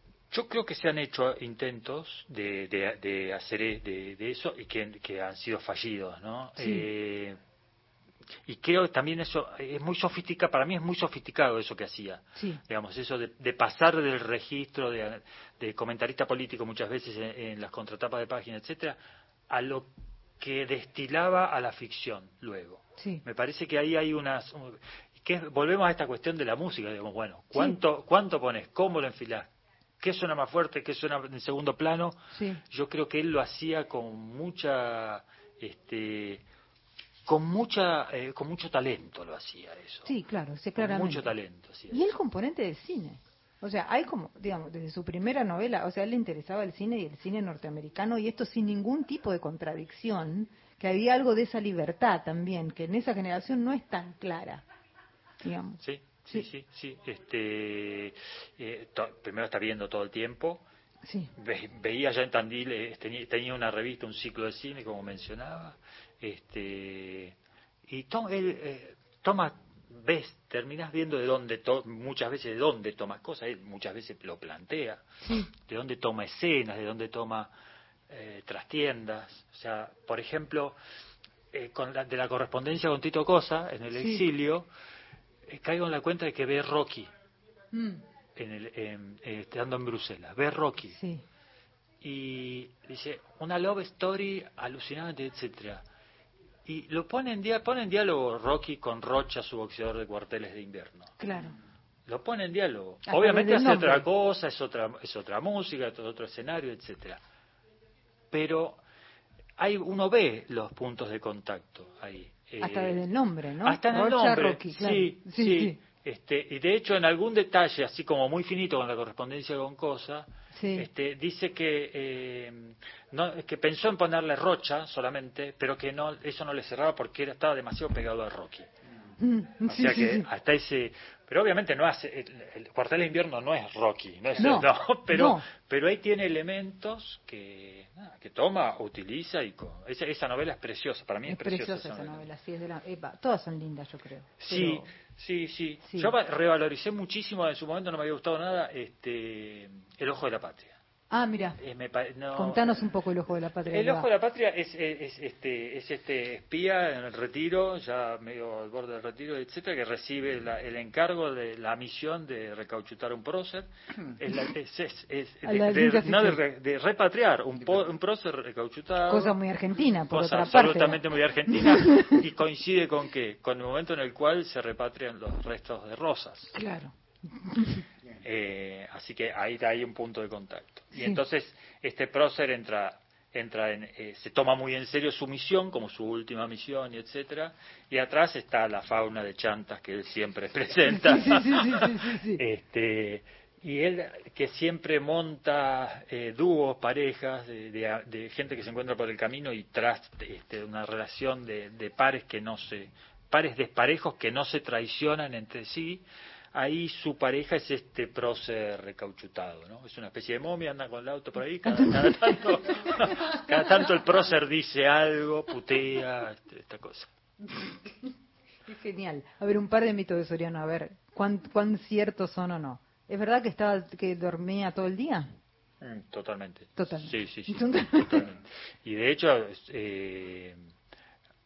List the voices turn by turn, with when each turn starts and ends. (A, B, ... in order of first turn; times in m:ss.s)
0:00.3-0:07.4 A
0:06.6-0:06.9 B
0:08.5-0:19.0 A
0:12.4-0:12.6 B
0:19.5-0:36.4 A
0:23.0-0:23.2 B
0:32.3-0:32.6 B
0:37.3-0:40.1 A
0:40.1-0:41.3 B
0:40.8-0:42.2 A
0:41.9-0:54.6 B
0:55.4-0:56.5 B
0:55.8-1:00.6 A
1:01.0-1:01.3 B
1:01.4-1:15.0 A
1:15.6-1:17.5 A
1:18.1-1:20.8 A
1:21.5-1:24.7 A
1:23.9-1:24.2 B
1:25.5-1:27.1 A
1:27.7-1:28.0 B
1:28.4-1:31.0 A
1:30.9-1:31.2 B
1:32.0-1:35.8 A
1:36.7-1:41.1 A
1:41.2-1:41.6 B
1:42.1-1:47.2 A
1:43.1-1:44.1 B
1:48.3-1:48.8 A
1:49.6-1:53.0 A
1:52.6-1:55.8 B
1:53.6-2:08.7 A
2:00.5-2:00.9 B
2:09.2-2:10.3 B
2:09.6-2:22.2 A
2:14.4-2:15.4 B
2:21.3-2:24.8 B
2:24.4-2:30.8 A
2:25.8-2:26.1 B
2:31.1-2:31.6 B
2:31.6-2:32.9 A
2:32.4-2:34.1 B
2:33.7-2:49.4 A
2:45.4-2:46.4 B
2:49.1-2:52.2 B
2:50.1-2:56.5 A
2:56.5-2:57.8 B
2:58.2-3:37.1 A
3:10.9-3:12.4 B
3:31.7-3:32.4 B
3:37.9-3:38.1 B
3:38.7-3:45.4 B
3:45.8-3:50.6 A
3:46.8-3:48.3 B